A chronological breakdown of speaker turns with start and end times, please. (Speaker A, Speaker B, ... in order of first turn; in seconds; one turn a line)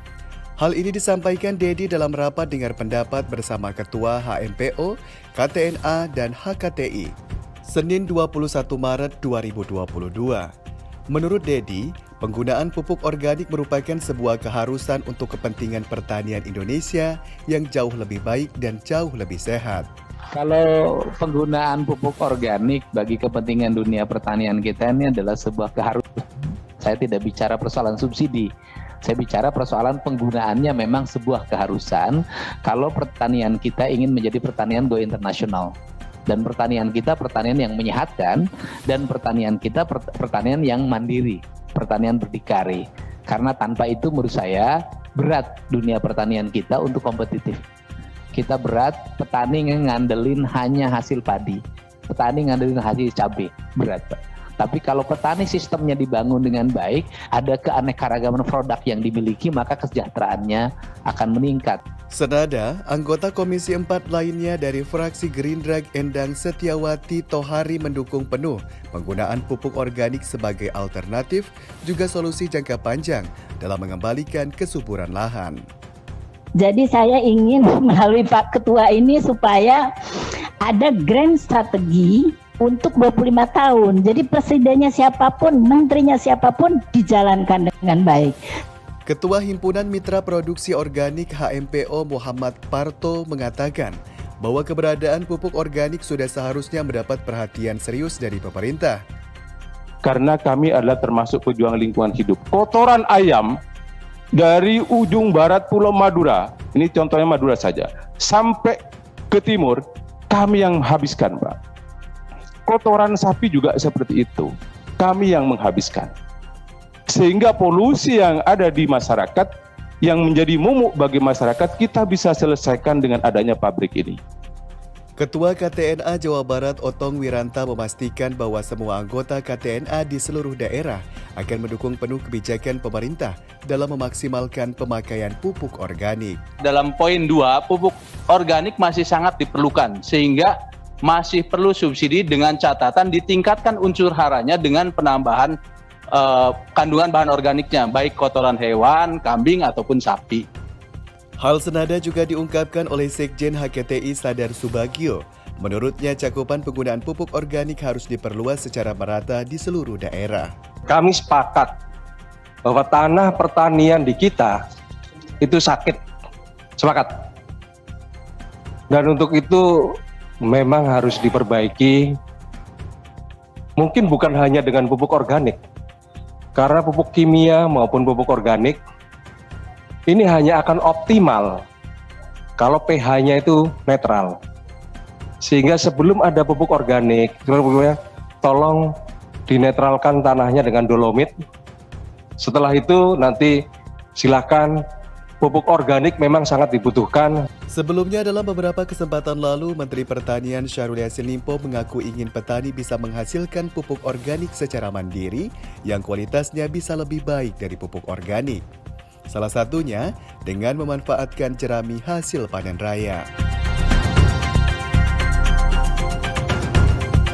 Speaker A: 0.6-7.1
Speaker A: 7.7-10.5
Speaker A: 11.1-19.9
Speaker B: 20.3-28.5
Speaker B: 29.0-35.7
Speaker B: 36.3-47.6
Speaker B: 48.3-61.8
Speaker A: 62.1-75.6
Speaker C: 76.6-79.8
Speaker C: 80.6-88.4
Speaker A: 89.1-99.0
Speaker D: 100.0-103.6
Speaker D: 104.3-108.8
Speaker D: 109.3-111.6
Speaker D: 112.7-116.1
Speaker D: 117.1-119.5
Speaker D: 120.0-124.2
Speaker A: 125.2-136.4
Speaker E: 136.6-145.6
Speaker E: 146.1-150.4
Speaker A: 151.4-160.5
Speaker F: 160.9-161.7
Speaker F: 162.7-164.6
Speaker F: 165.4-166.0
Speaker F: 166.8-167.1
Speaker F: 168.9-169.6
Speaker F: 170.5-172.0
Speaker F: 173.8-175.6
Speaker F: 176.6-178.8
Speaker F: 180.1-181.6
Speaker F: 182.6-184.4
Speaker F: 185.4-188.8
Speaker F: 189.5-191.3
Speaker F: 192.4-193.5
Speaker F: 194.2-194.7
Speaker F: 195.4-197.3
Speaker A: 197.7-208.6
Speaker A: 209.3-213.2